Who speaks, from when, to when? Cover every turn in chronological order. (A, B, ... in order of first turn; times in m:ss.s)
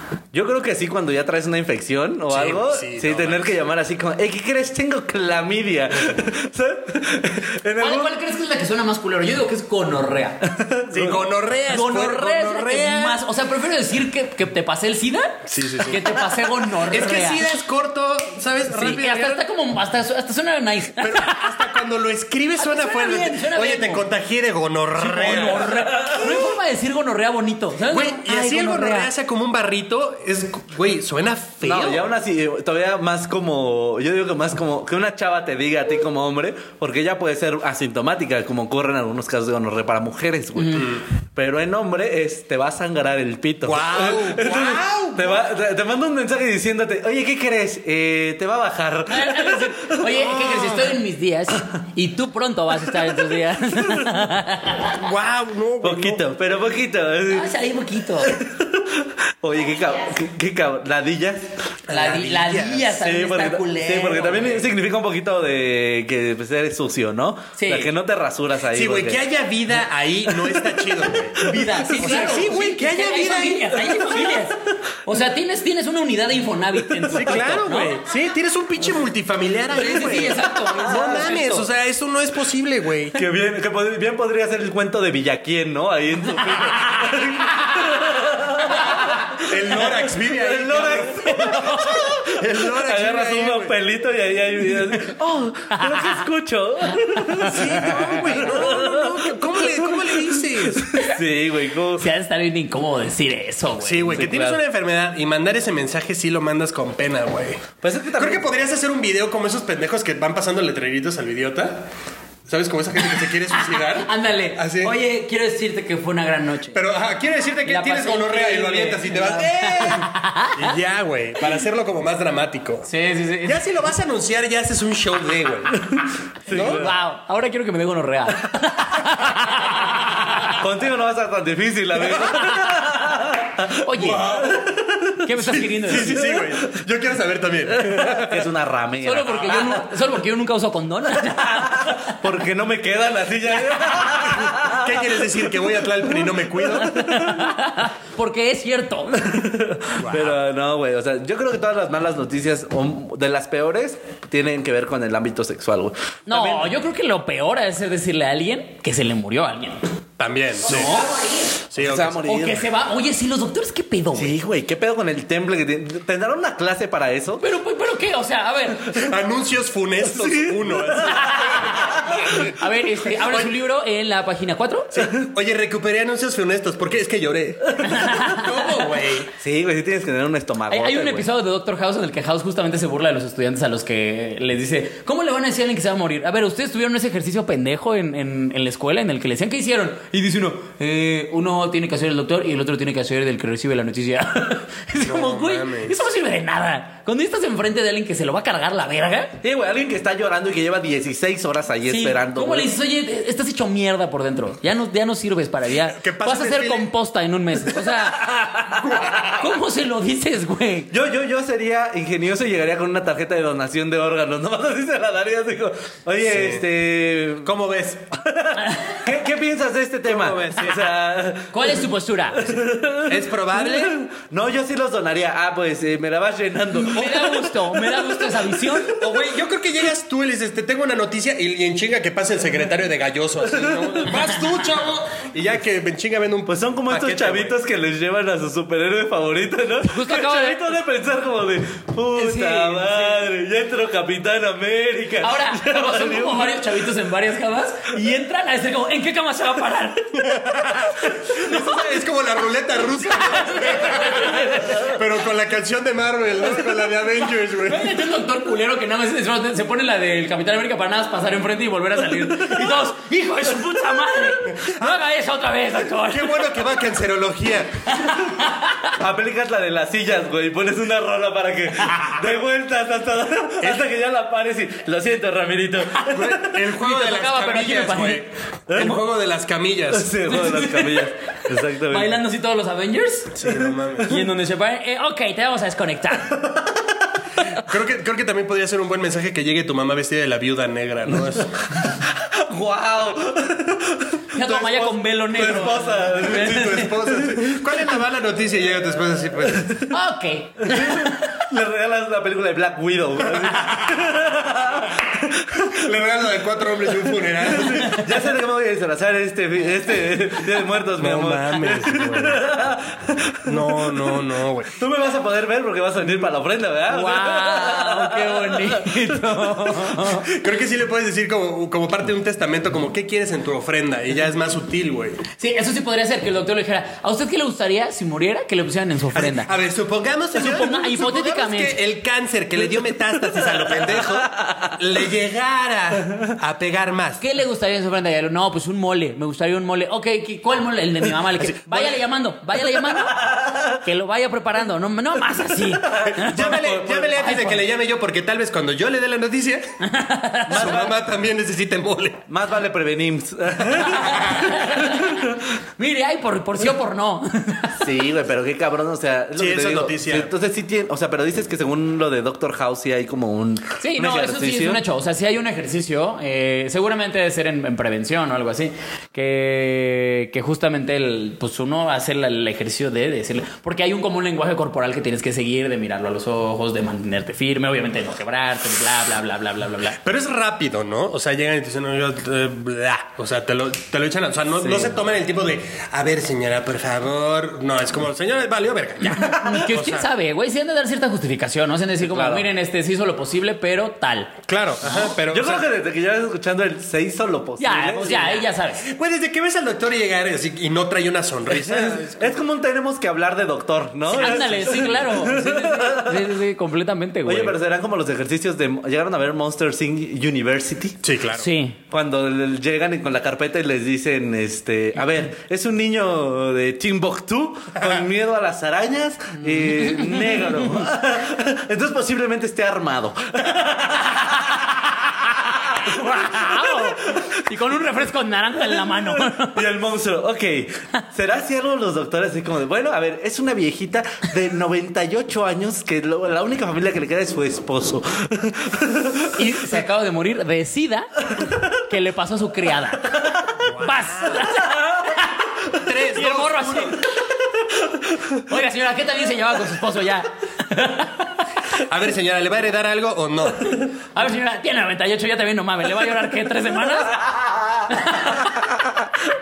0:00.3-0:08.2 A
0:02.3-0:03.5 B
0:07.8-0:10.4 C
0:10.4-0:11.2 A
0:10.9-0:13.2 B
0:11.7-0:17.4 C
0:15.5-0:16.1 B
0:16.9-0:19.4 B
0:18.7-0:21.8 C
0:21.0-0:25.9 B
0:22.6-0:24.0 C
0:25.0-0:29.1 C
0:26.0-0:26.3 A
0:27.9-0:32.0 B
0:31.6-0:50.3 A
0:40.6-0:40.9 C
0:40.8-0:41.0 B
0:43.6-0:45.4 B
0:49.1-0:55.0 C
0:50.4-0:50.9 B
0:54.9-0:56.4 B
0:55.8-0:57.5 A
0:57.3-0:58.4 C
0:58.2-1:01.5 A
1:01.9-1:02.9 B
1:01.9-1:04.7 C
1:02.9-1:09.2 A
1:07.6-1:07.9 C
1:08.7-1:14.4 B
1:10.3-1:12.4 A
1:11.4-1:18.0 C
1:16.9-1:17.8 A
1:17.1-1:23.2 B
1:19.8-1:21.7 C
1:20.8-1:21.4 A
1:23.2-1:42.1 A
1:27.5-1:27.8 C
1:28.8-1:29.2 C
1:29.4-1:33.8 B
1:31.2-1:32.1 C
1:35.7-1:36.1 C
1:37.1-1:38.2 C
1:37.6-1:41.1 B
1:42.0-1:44.3 C
1:43.8-1:51.9 B
1:44.1-1:44.6 A
1:47.8-1:48.5 A
1:52.5-1:54.9 B
1:53.5-1:56.8 C
1:56.7-2:02.9 B
1:57.7-2:00.7 C
2:02.9-2:03.6 C
2:03.4-2:05.8 B
2:06.0-2:07.0 A
2:06.5-2:06.9 B
2:06.5-2:10.6 C
2:10.5-2:15.2 A
2:13.8-2:14.4 C
2:13.9-2:14.7 B
2:15.2-2:16.3 C
2:15.4-2:18.5 B
2:16.2-2:16.6 A
2:17.7-2:19.8 A
2:19.0-2:22.2 C
2:21.3-2:25.4 A
2:24.4-2:27.1 B
2:26.3-2:27.6 A
2:26.9-2:29.4 C
2:29.2-2:36.7 A
2:30.0-2:30.4 B
2:36.3-2:39.8 C
2:40.2-2:41.0 B
2:40.7-2:41.5 C
2:41.7-2:42.2 B
2:41.8-2:42.7 A
2:42.2-2:44.4 C
2:44.1-2:47.4 A
2:47.4-2:49.0 C
2:48.9-2:52.5 B
2:50.0-2:52.4 A
2:51.1-2:55.0 C
2:53.1-2:53.5 B
2:54.9-2:59.3 B
2:57.8-2:58.6 C
2:59.4-3:01.3 A
3:00.7-3:19.4 C
3:15.0-3:16.0 B
3:19.4-3:22.7 A
3:21.9-3:30.9 C
3:25.9-3:26.9 B
3:28.8-3:29.3 B
3:30.9-3:37.5 A
3:36.2-3:36.6 B
3:37.4-3:38.1 B
3:38.1-3:48.7 A
3:38.6-3:39.0 C
3:40.0-3:40.9 B
3:41.5-3:42.5 C
3:43.0-3:44.0 B
3:46.7-3:49.0 C
3:48.9-3:57.6 B
3:53.4-3:54.3 A
3:56.5-4:06.8 A
3:59.8-4:00.7 C
4:02.2-4:03.2 C
4:05.2-4:10.2 C
4:10.2-4:18.0 B
4:11.4-4:11.7 C
4:13.1-4:15.0 C
4:17.7-4:26.5 C
4:24.6-4:25.0 B
4:25.9-4:27.9 B
4:27.9-4:28.9 C
4:28.9-4:36.6 A
4:35.9-4:36.2 C
4:36.1-4:40.1 B
4:36.7-4:38.3 C
4:38.7-4:39.0 A
4:39.9-4:42.2 A
4:40.3-4:43.4 C
4:43.3-4:44.2 B
4:43.4-4:43.8 A
4:44.0-4:46.4 C
4:46.4-4:47.0 A
4:47.5-4:51.6 B
4:51.1-4:57.7 A
4:54.3-4:56.9 C
4:56.2-4:59.9 B
4:59.9-5:01.4 C
5:00.6-5:05.8 A
5:03.4-5:03.9 B
5:05.6-5:08.1 B
5:07.4-5:20.2 A
5:11.0-5:12.4 B
5:13.4-5:14.7 B
5:16.9-5:20.3 C
5:20.2-5:25.2 B
5:25.4-5:29.5 C
5:29.1-5:37.2 B
5:30.4-5:31.8 C
5:33.9-5:34.8 A
5:37.2-5:47.6 C
5:42.7-5:43.8 A
5:45.8-5:47.1 A
5:46.0-5:49.8 B
5:49.8-5:50.8 C
5:50.5-5:51.0 A
5:50.5-5:52.2 B
5:52.3-5:55.4 A
5:53.9-5:58.0 C
5:54.0-5:54.5 B
5:57.8-6:04.8 A
5:59.4-6:00.3 B
6:03.8-6:20.0 C
6:20.0-6:30.1 B
6:24.6-6:25.0 A
6:29.0-6:34.3 C
6:32.0-6:32.5 A
6:34.5-6:35.7 B
6:34.8-6:38.4 A
6:37.6-6:38.8 C
6:38.8-6:42.4 B
6:41.5-6:46.4 A
6:44.1-6:47.6 C
6:47.2-6:51.0 A
6:51.0-6:51.5 B
6:51.4-6:51.8 C
6:51.9-7:07.4 A
6:59.4-7:00.8 C
7:04.1-7:09.7 C
7:08.8-7:19.5 A
7:19.3-7:23.2 C
7:23.6-7:24.6 B
7:23.8-7:25.5 C
7:25.7-7:27.0 B
7:26.1-7:27.0 C
7:28.4-7:31.3 C
7:31.8-7:33.8 B
7:34.2-7:37.2 C
7:37.1-7:39.2 A
7:37.9-7:38.6 C